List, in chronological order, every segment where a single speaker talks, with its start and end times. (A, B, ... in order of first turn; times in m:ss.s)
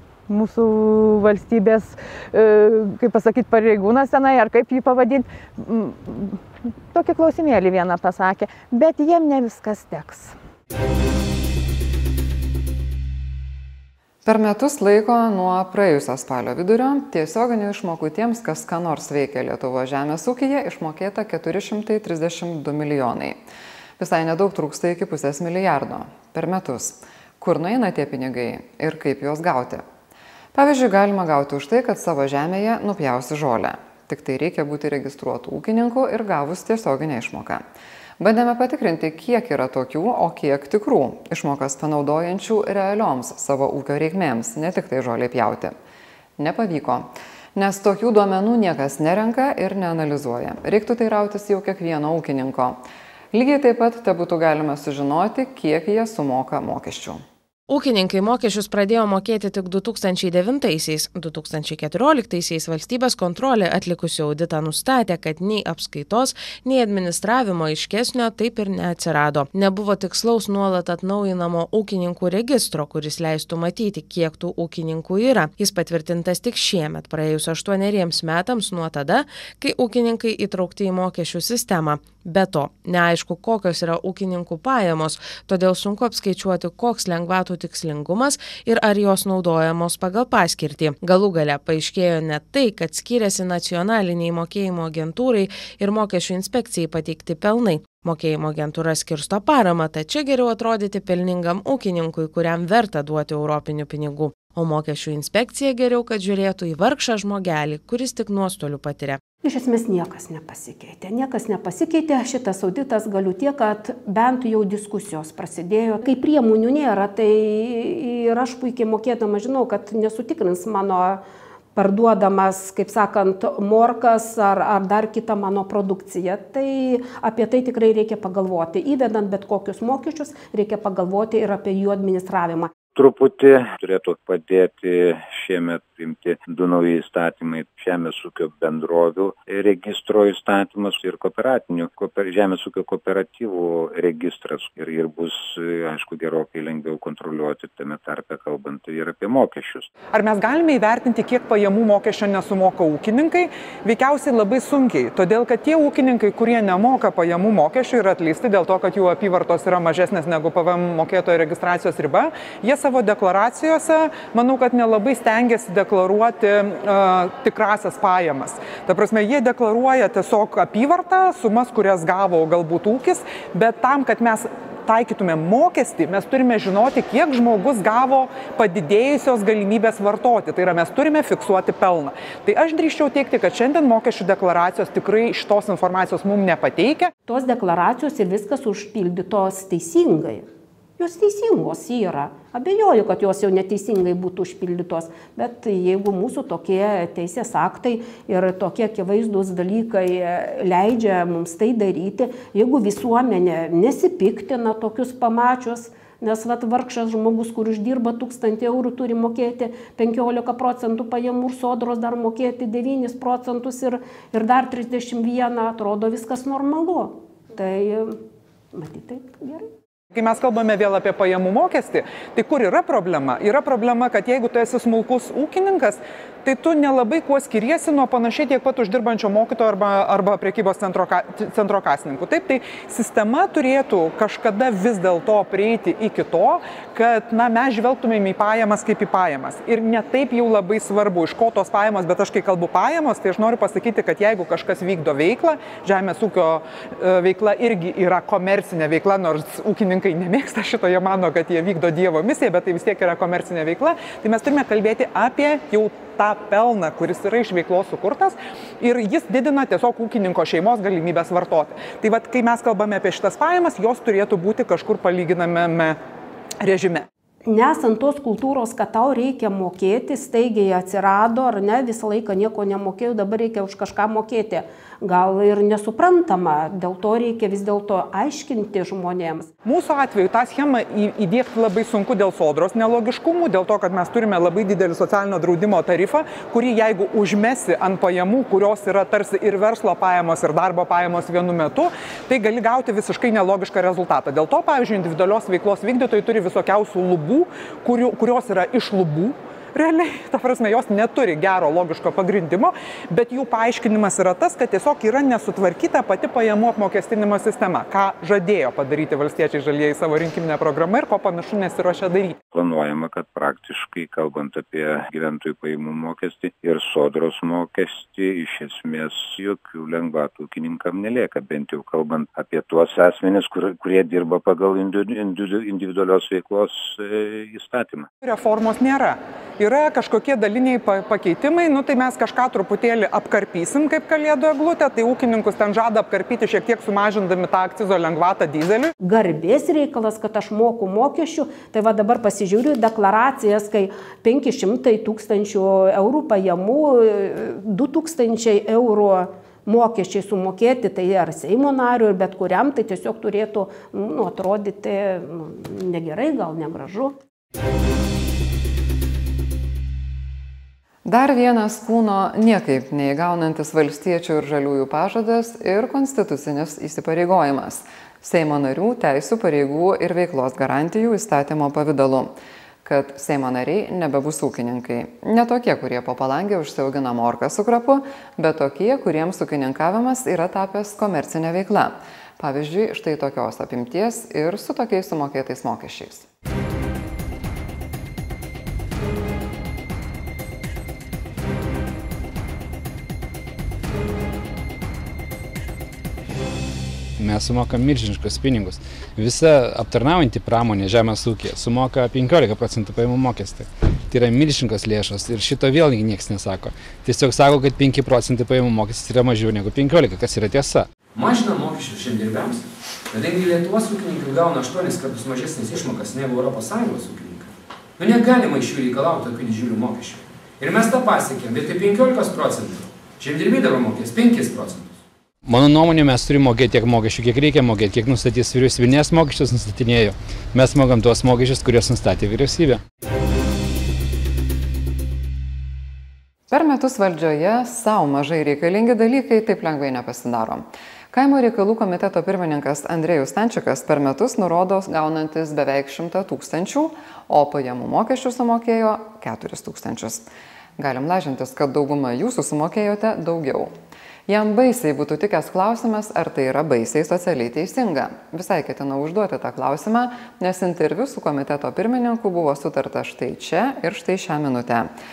0:00.3-0:10.3 A
0:14.2-0:23.4 B
0:24.0-0:29.8 B
0:30.5-0:37.6 B
0:38.2-0:45.8 B
0:46.4-0:57.2 B
0:57.7-1:49.2 C
1:49.4-2:01.2 D
2:01.8-2:12.7 D
2:12.9-2:29.9 E
2:30.1-3:07.1 F
3:07.3-3:10.5 D
3:11.0-3:38.2 D
3:38.7-3:39.7 D
3:40.1-4:26.0 F
4:26.6-4:27.0 F
4:27.4-4:39.5 D
4:39.6-5:12.4 F
5:12.5-5:28.1 E
5:28.2-5:38.9 F
5:39.0-5:57.2 D
6:01.0-6:26.3 B
6:37.2-6:50.8 G
6:51.2-7:05.0 H
7:05.4-7:12.8 G
7:16.5-7:33.8 B
7:34.3-7:44.9 B